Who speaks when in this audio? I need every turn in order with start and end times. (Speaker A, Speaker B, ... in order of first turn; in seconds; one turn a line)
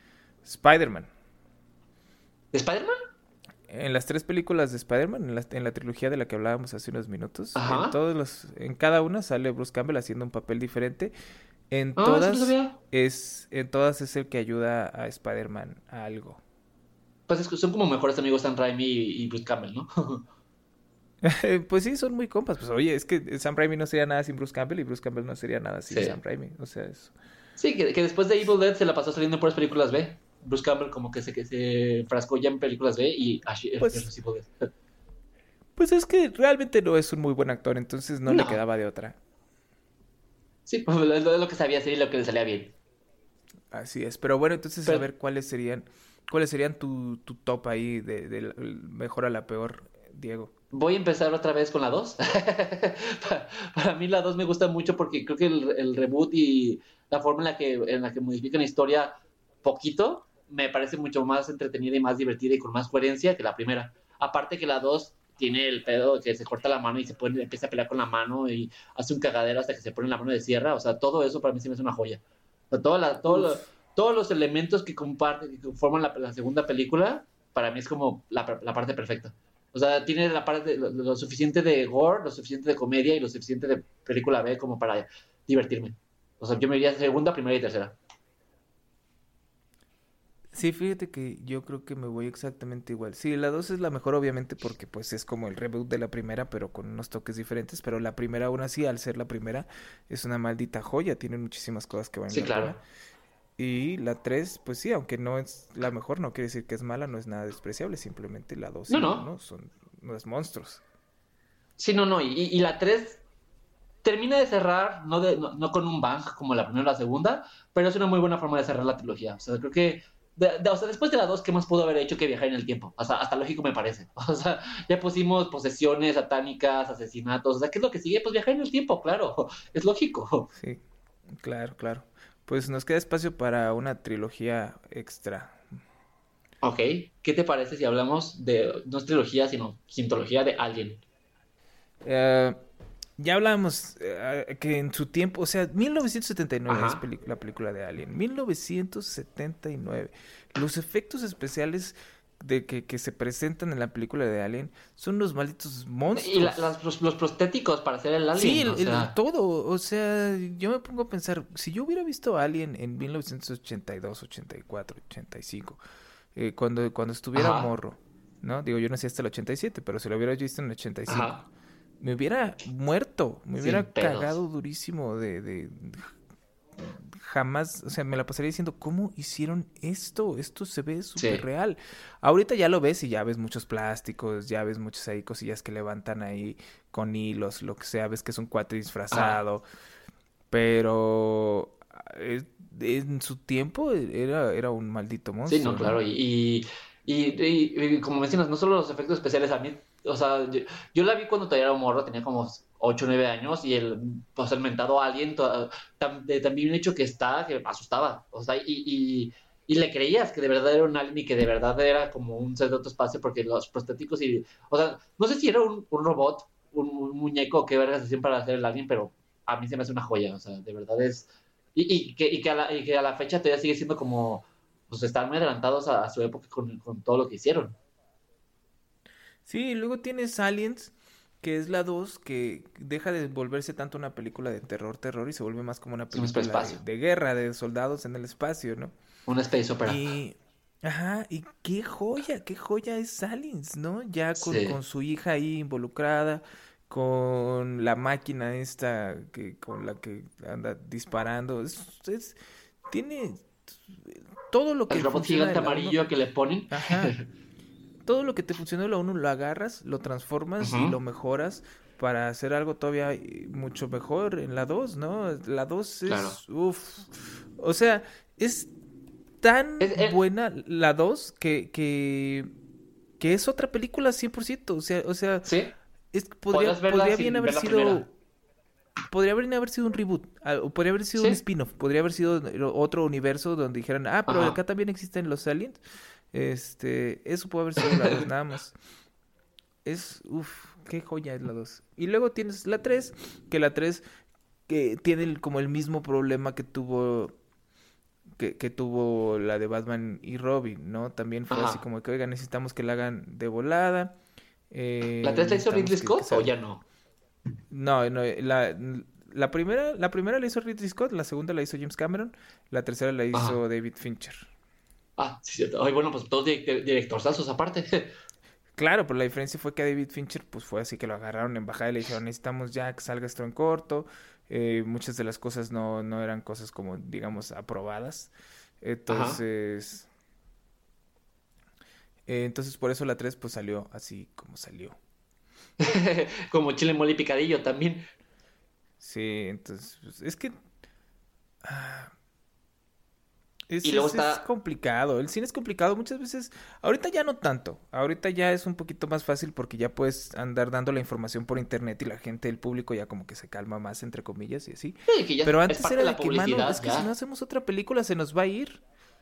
Speaker A: 0.5-1.1
Speaker B: 2.5-3.0
Speaker A: 3.7-11.1
Speaker B: 7.5-8.0
Speaker A: 11.7-16.4
Speaker B: 12.0-12.8
Speaker B: 17.3-20.2
Speaker A: 21.2-27.1
Speaker B: 25.9-26.2
Speaker B: 27.6-34.7
Speaker A: 33.8-34.1
Speaker A: 35.8-39.2
Speaker B: 38.3-38.6
Speaker B: 40.7-42.7
Speaker A: 43.7-50.5
Speaker B: 50.7-88.0
Speaker A: 73.3-73.6
Speaker A: 90.5-102.8
Speaker B: 102.3-102.8
Speaker A: 103.6-110.8
Speaker B: 108.9-109.3
Speaker B: 111.8-113.2
Speaker B: 114.0-130.5
Speaker A: 130.6-135.7
Speaker B: 136.6-141.0
Speaker A: 142.0-142.6
Speaker A: 143.2-156.7
Speaker B: 146.7-147.0
Speaker B: 156.1-159.1
Speaker A: 158.3-165.8
Speaker A: 166.3-171.4
Speaker B: 167.3-167.7
Speaker B: 171.1-171.4
Speaker A: 172.0-176.1
Speaker B: 173.6-174.4
Speaker A: 176.8-189.7
Speaker B: 181.2-181.4
Speaker B: 189.1-189.4
Speaker A: 190.5-196.0
Speaker B: 195.5-227.8
Speaker A: 229.5-238.9
Speaker B: 236.1-236.8
Speaker B: 239.3-240.1
Speaker A: 239.8-256.0
Speaker B: 244.4-244.8
Speaker B: 254.9-257.3
Speaker A: 256.7-257.1
Speaker A: 258.1-268.7
Speaker B: 260.6-260.9
Speaker B: 266.1-266.4
Speaker A: 269.4-272.5
Speaker B: 269.8-270.2
Speaker A: 273.2-275.5
Speaker B: 275.4-275.7
Speaker A: 276.1-278.1
Speaker B: 276.5-278.0
Speaker A: 279.1-285.8
Speaker B: 284.3-284.6
Speaker A: 286.3-288.7
Speaker B: 287.9-288.2
Speaker A: 289.9-294.0
Speaker A: 294.7-297.4
Speaker A: 298.4-304.2
Speaker B: 301.5-301.8
Speaker A: 304.7-306.5
Speaker B: 305.2-306.8
Speaker A: 307.7-314.5
Speaker B: 313.3-313.6
Speaker B: 315.2-318.1
Speaker A: 318.8-330.1
Speaker B: 329.1-329.4
Speaker A: 332.3-335.0
Speaker B: 335.8-338.1
Speaker A: 339.0-340.5
Speaker A: 341.6-342.1
Speaker A: 343.7-358.8
Speaker B: 343.8-344.4
Speaker B: 355.1-357.1